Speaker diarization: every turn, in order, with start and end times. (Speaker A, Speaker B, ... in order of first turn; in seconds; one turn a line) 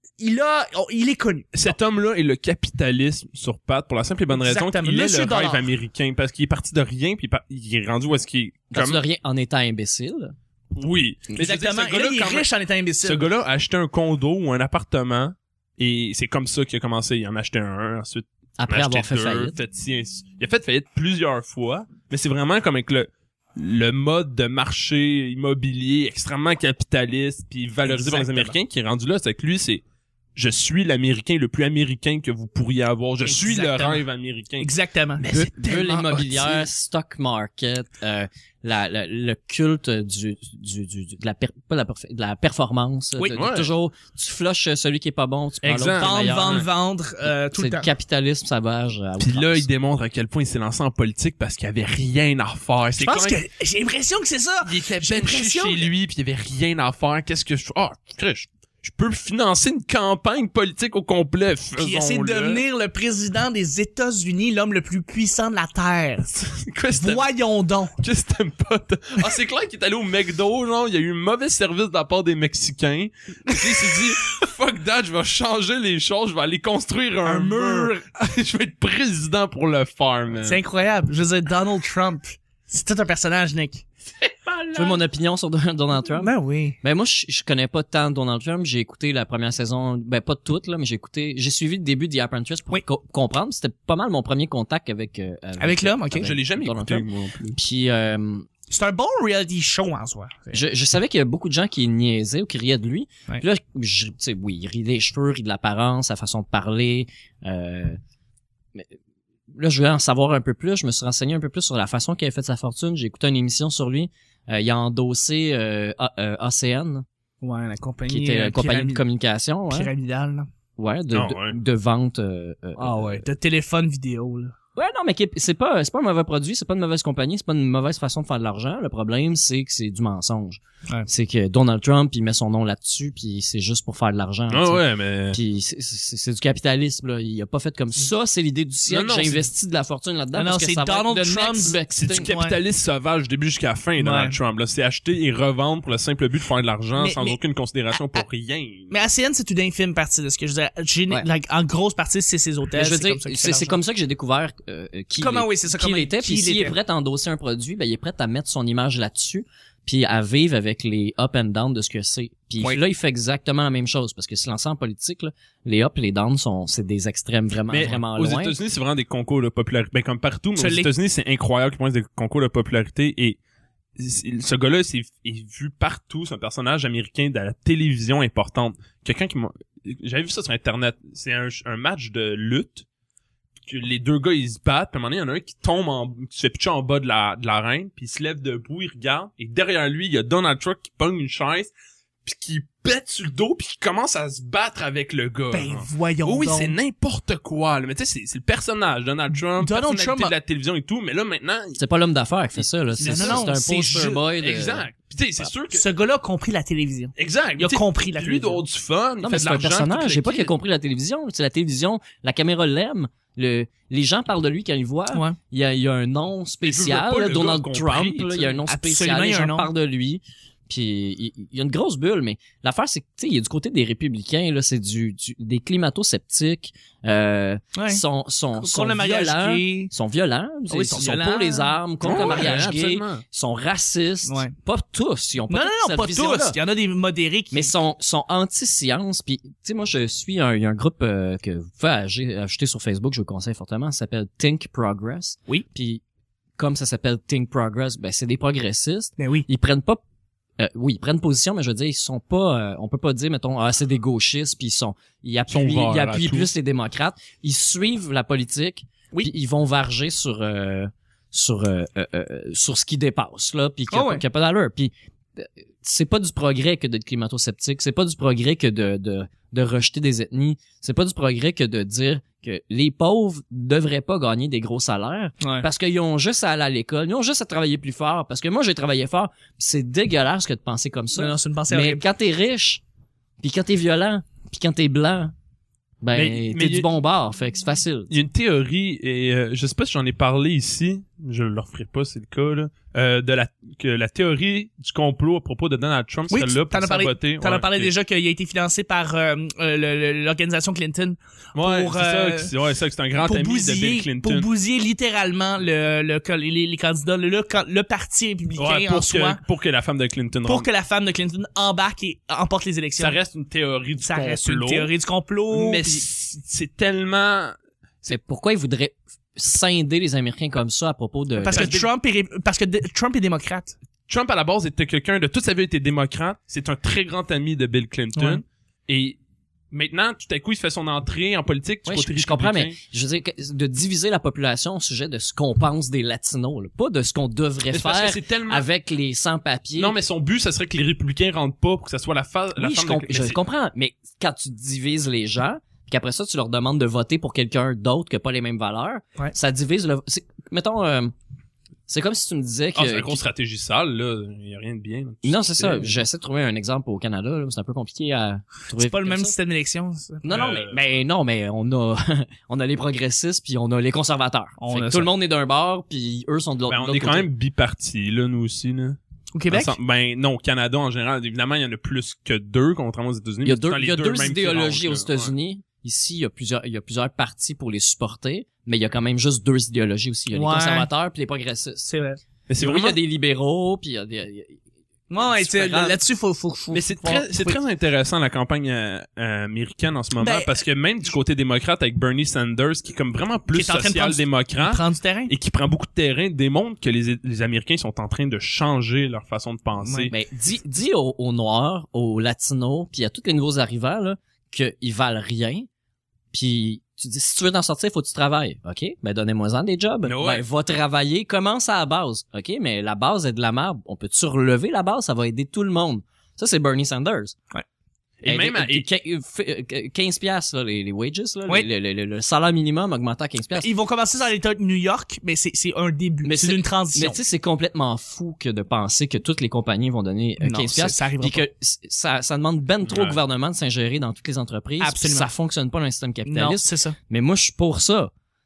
Speaker A: 0.2-1.7
Speaker B: 1.5-9.0
Speaker A: 4.3-5.7
Speaker C: 8.7-10.3
Speaker B: 10.7-12.4
Speaker A: 11.3-13.3
Speaker B: 13.0-29.8
Speaker C: 18.6-19.6
Speaker A: 27.8-28.6
Speaker B: 30.4-36.7
Speaker A: 33.2-34.0
Speaker A: 34.6-35.2
Speaker C: 35.3-46.7
Speaker B: 43.3-43.7
Speaker B: 45.6-46.7
Speaker A: 45.9-47.9
Speaker C: 47.5-49.6
Speaker B: 49.2-53.4
Speaker A: 53.0-55.9
Speaker B: 54.6-62.6
Speaker A: 61.8-66.4
Speaker B: 66.4-67.3
Speaker A: 67.0-68.0
Speaker B: 68.0-80.6
Speaker A: 77.2-78.0
Speaker A: 80.4-83.8
Speaker B: 84.2-85.0
Speaker C: 84.7-98.5
Speaker A: 86.2-86.8
Speaker A: 95.6-96.3
Speaker B: 96.2-97.6
Speaker A: 98.7-100.6
Speaker C: 100.5-108.0
Speaker C: 109.5-117.0
Speaker A: 117.4-119.0
Speaker C: 118.1-119.9
Speaker A: 119.7-120.5
Speaker C: 120.8-123.2
Speaker B: 121.1-121.6
Speaker A: 122.8-124.5
Speaker C: 124.8-142.3
Speaker B: 134.5-135.4
Speaker B: 138.9-139.5
Speaker A: 140.3-142.6
Speaker B: 141.9-148.9
Speaker A: 144.0-144.3
Speaker A: 146.9-147.4
Speaker A: 147.9-148.2
Speaker A: 148.9-153.8
Speaker C: 152.7-168.6
Speaker A: 155.2-156.8
Speaker B: 167.7-173.4
Speaker A: 170.6-170.9
Speaker B: 174.0-182.8
Speaker B: 183.7-191.7
Speaker B: 192.2-201.8
Speaker A: 195.5-196.7
Speaker A: 199.6-200.3
Speaker C: 201.8-204.8
Speaker B: 202.9-203.4
Speaker A: 203.0-204.2
Speaker B: 204.4-205.8
Speaker A: 205.7-208.6
Speaker B: 207.2-210.5
Speaker C: 209.2-236.6
Speaker B: 216.6-218.6
Speaker A: 218.7-219.7
Speaker A: 227.7-228.0
Speaker A: 228.5-229.9
Speaker A: 230.7-232.5
Speaker B: 232.0-233.2
Speaker A: 234.2-234.5
Speaker A: 235.5-237.7
Speaker C: 237.5-246.0
Speaker C: 246.6-250.0
Speaker A: 249.2-249.4
Speaker C: 250.6-282.8
Speaker B: 255.5-256.5
Speaker A: 263.9-264.2
Speaker A: 275.4-275.7
Speaker A: 281.1-282.0
Speaker C: 283.4-285.3
Speaker C: 286.0-288.1
Speaker B: 286.1-286.9
Speaker B: 288.1-297.9
Speaker A: 296.3-302.5
Speaker B: 301.5-304.5
Speaker A: 303.2-309.4
Speaker B: 308.6-310.7
Speaker A: 310.4-313.2
Speaker B: 313.0-314.9
Speaker A: 314.0-316.0
Speaker B: 315.5-318.1
Speaker C: 318.1-321.8
Speaker A: 321.4-323.8
Speaker B: 321.5-321.9
Speaker B: 324.1-329.2
Speaker A: 328.1-328.4
Speaker B: 329.7-332.8
Speaker C: 331.9-339.9
Speaker B: 337.7-338.7
Speaker B: 339.8-343.4
Speaker C: 342.6-351.1
Speaker C: 351.9-353.2
Speaker B: 352.7-356.0
Speaker C: 355.2-359.3
Speaker A: 358.8-360.5
Speaker C: 360.2-367.3
Speaker B: 360.3-360.8
Speaker A: 364.6-365.1
Speaker B: 366.7-369.0
Speaker A: 369.3-369.7
Speaker B: 369.5-375.3
Speaker C: 373.4-381.9
Speaker A: 380.3-380.9
Speaker A: 381.9-382.2
Speaker B: 382.5-383.0
Speaker C: 382.6-384.6
Speaker A: 385.1-387.6
Speaker C: 385.2-386.0
Speaker B: 386.7-400.1
Speaker A: 390.2-390.6
Speaker A: 393.5-395.3
Speaker A: 399.8-400.1
Speaker C: 400.1-405.7
Speaker C: 406.3-417.4
Speaker B: 410.0-410.4
Speaker B: 418.2-418.8
Speaker C: 418.2-423.7
Speaker A: 423.6-427.2
Speaker C: 426.2-438.1
Speaker A: 430.4-431.4
Speaker B: 432.9-433.2
Speaker A: 434.8-435.3
Speaker A: 436.2-436.9